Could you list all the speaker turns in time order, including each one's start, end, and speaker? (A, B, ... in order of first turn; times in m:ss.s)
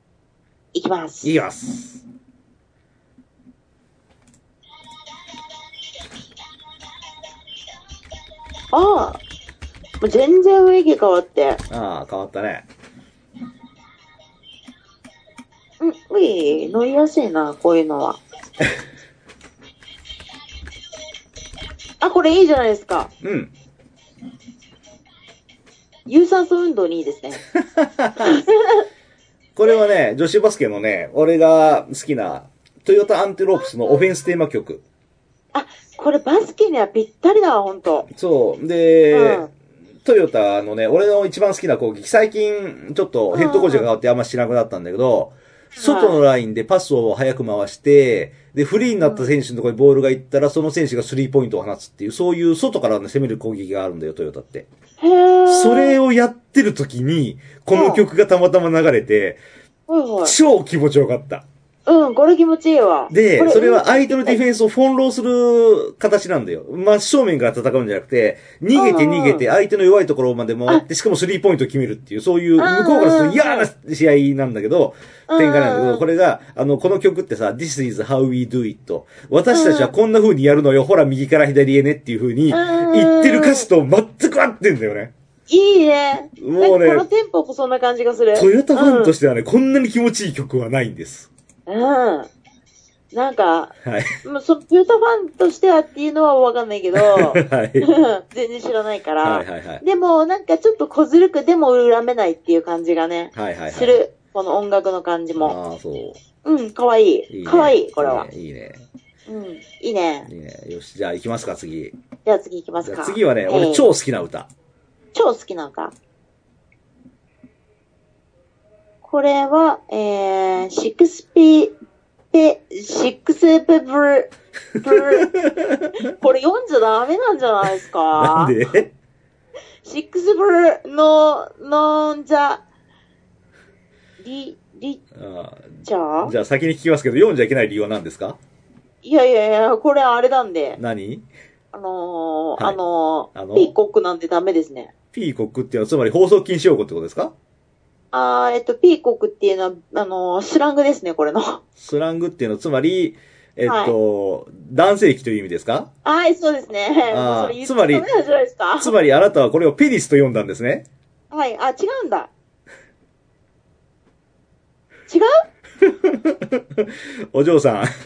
0:00.7-0:01.3 A
0:01.2-0:02.0 B
0:08.7-0:09.2 A
0:10.0-0:11.6 A
0:11.7-0:12.6 B
0:15.8-0:18.2 A
0:22.0-0:23.1 A
0:23.2-0:23.5 B
0:26.1-0:27.4 A
0:27.5-0:28.4 B
0:28.2-0:28.8 A
0:29.6-0:34.8 B
0:35.5-0:38.1 A
0:38.1-0:39.5 B
0:39.1-0:39.5 A
0:40.0-0:54.7 B
0:43.3-0:43.9 A
0:45.8-0:46.2 A
0:49.0-0:49.3 A
0:55.0-0:56.0 A
0:55.5-0:59.4 B
0:57.7-0:58.0 A
0:59.9-1:00.4 A
1:00.2-1:01.4 B
1:01.8-1:04.4 A
1:03.1-1:25.1 B
1:08.7-1:09.4 A
1:12.6-1:13.7 A
1:15.3-1:16.0 A
1:19.5-1:19.9 A
1:22.5-1:23.7 A
1:25.5-1:29.1 A
1:26.4-1:27.0 B
1:28.3-1:31.3 B
1:31.7-1:32.3 A
1:33.1-1:45.6 A
1:33.8-1:34.2 B
1:36.9-1:37.9 B
1:39.2-1:39.8 B
1:43.3-1:44.0 B
1:45.4-1:46.2 B
1:46.4-1:48.3 A
1:47.3-1:48.8 B
1:49.3-1:50.3 A
1:50.2-1:51.9 B
1:52.2-1:53.9 A
1:52.8-1:54.5 B
1:55.1-1:55.9 A
1:59.0-2:01.7 A
2:02.3-2:04.3 A
2:04.8-2:05.3 A
2:04.8-2:06.0 B
2:06.2-2:08.6 A
2:08.1-2:08.9 B
2:09.8-2:12.6 A
2:14.2-2:15.0 A
2:15.1-2:18.4 B
2:15.8-2:16.3 A
2:19.0-2:20.8 A
2:20.8-2:21.2 B
2:21.7-2:24.9 A
2:23.3-2:23.7 B
2:25.1-2:27.3 B
2:28.1-2:31.6 A
2:31.8-2:35.9 B
2:33.6-2:33.9 A
2:36.0-2:38.9 A
2:37.1-2:38.0 B
2:38.8-2:40.8 B
2:41.3-2:42.3 A
2:45.8-2:47.9 B